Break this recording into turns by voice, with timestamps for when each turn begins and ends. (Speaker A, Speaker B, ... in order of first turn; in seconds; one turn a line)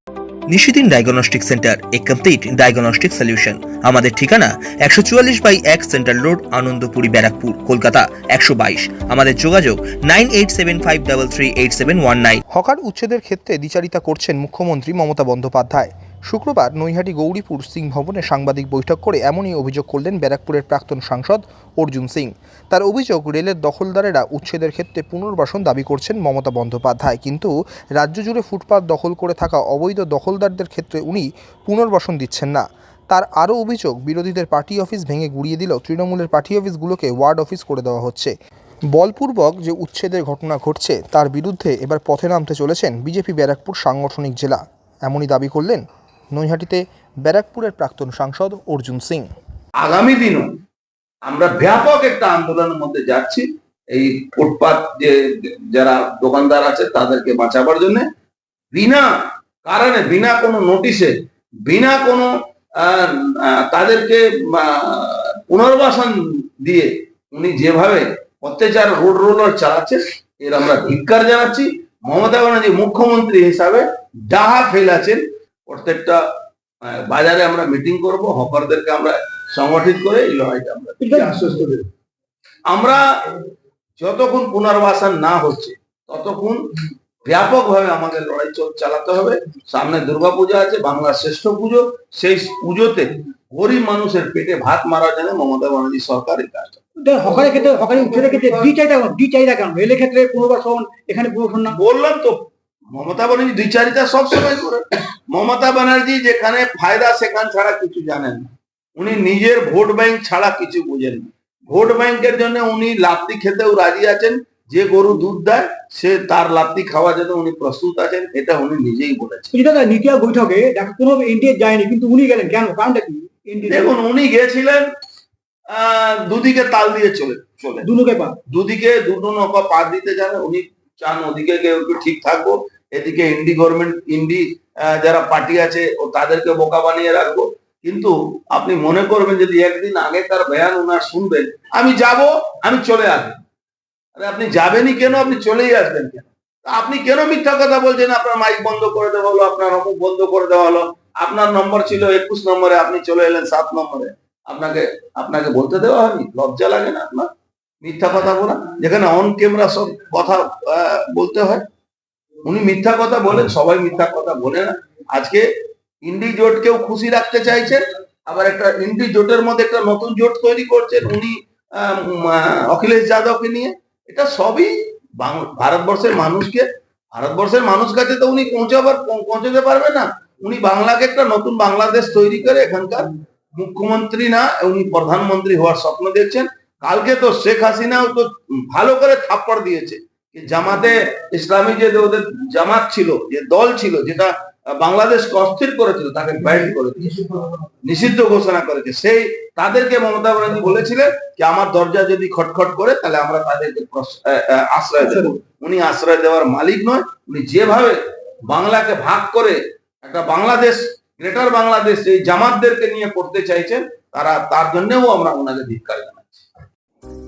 Speaker A: 0.5-12.4
Speaker B: 12.5-38.3
Speaker B: 38.9-49.3
Speaker C: 49.8-50.5
Speaker C: 51.2-58.1
Speaker C: 58.7-59.1
Speaker C: 59.6-61.1
Speaker C: 61.6-76.2
Speaker C: 76.8-81.5
Speaker D: 81.0-81.8
Speaker C: 82.7-83.3
Speaker C: 84.0-86.6
Speaker C: 87.2-96.8
Speaker D: 97.0-101.7
Speaker C: 101.7-102.4
Speaker C: 102.9-119.5
Speaker D: 119.5-123.9
Speaker C: 123.6-124.9
Speaker C: 125.7-127.9
Speaker D: 127.8-128.4
Speaker C: 128.5-143.4
Speaker C: 144.2-157.3
Speaker C: 157.8-161.6
Speaker C: 162.4-165.5
Speaker C: 166.0-197.2
Speaker C: 197.8-208.0
Speaker D: 205.0-205.3
Speaker C: 208.5-216.4